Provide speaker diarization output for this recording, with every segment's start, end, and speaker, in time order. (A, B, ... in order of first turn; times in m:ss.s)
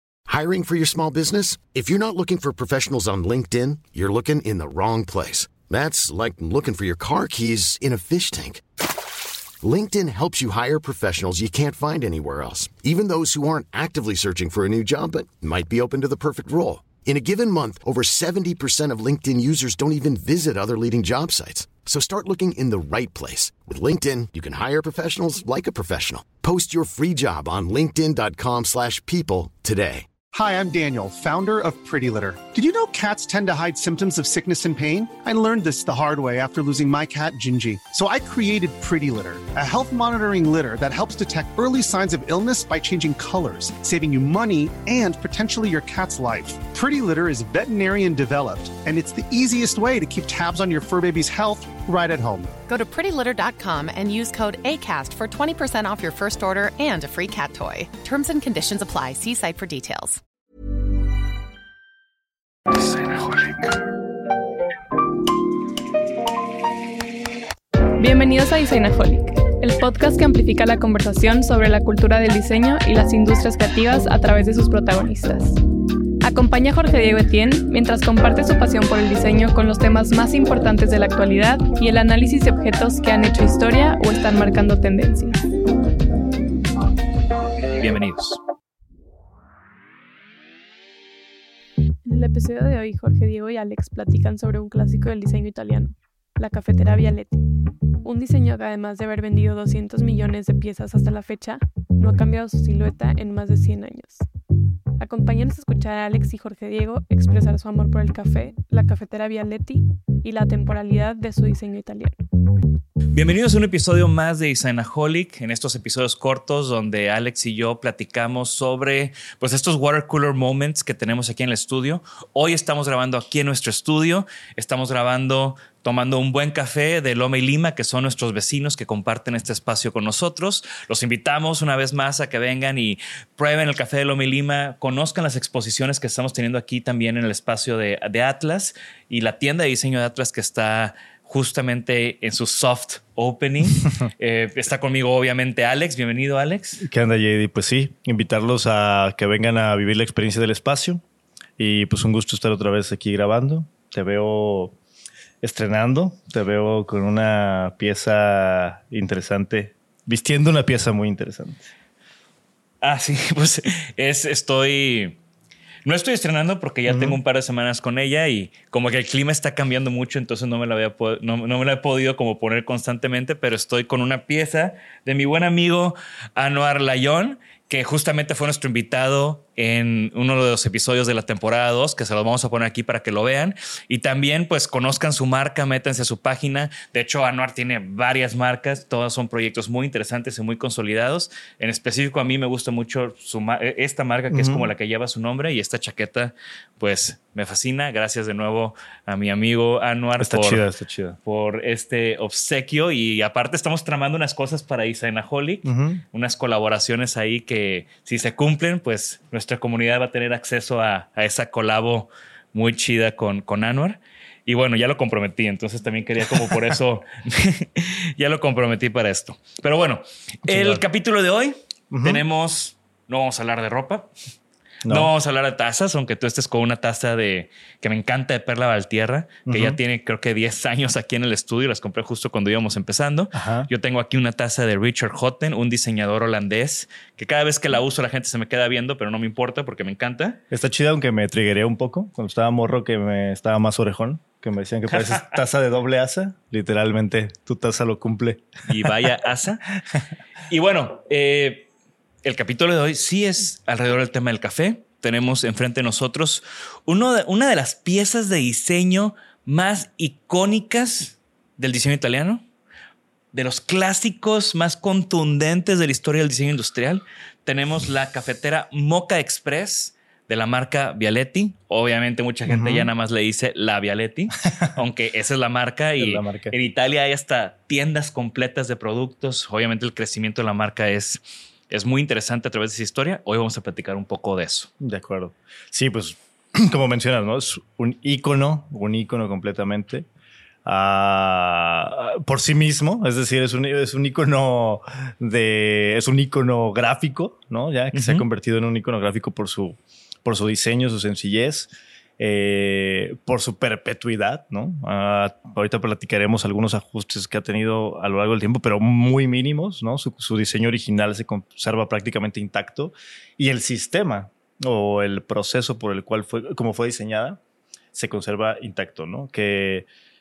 0:00.3-0:08.6 A
0:09.6-0:30.1 A
0:30.3-0:52.5 B
0:52.7-1:00.2 C
1:08.0-1:15.6 D
1:16.2-1:25.4 D
1:27.8-1:28.4 E
1:32.0-1:37.3 D
1:38.0-1:44.2 D
1:45.0-1:52.2 D
1:53.1-2:26.8 E
2:26.8-2:31.0 F
2:31.6-2:34.7 F
2:35.4-2:41.6 F
2:42.8-2:45.2 E
2:45.8-3:20.7 E
2:46.8-2:47.2 F
3:14.3-3:14.7 F
3:20.2-3:21.2 F
3:21.2-3:44.1 E
3:25.6-3:26.0 F
3:40.5-3:40.8 F
3:41.9-3:42.2 F
3:44.8-3:45.1 F
3:44.9-4:00.4 E
3:49.5-3:49.8 F
3:53.3-3:53.7 F
4:00.5-4:08.5 F
4:08.6-4:09.6 E
4:10.5-4:11.6 E
4:12.2-4:22.4 E
4:23.3-4:44.7 E
4:32.5-4:32.9 F
4:36.0-4:36.5 F
4:44.8-4:50.1 F
4:50.6-5:17.4 F
4:57.9-4:58.2 E
5:17.9-5:19.9 F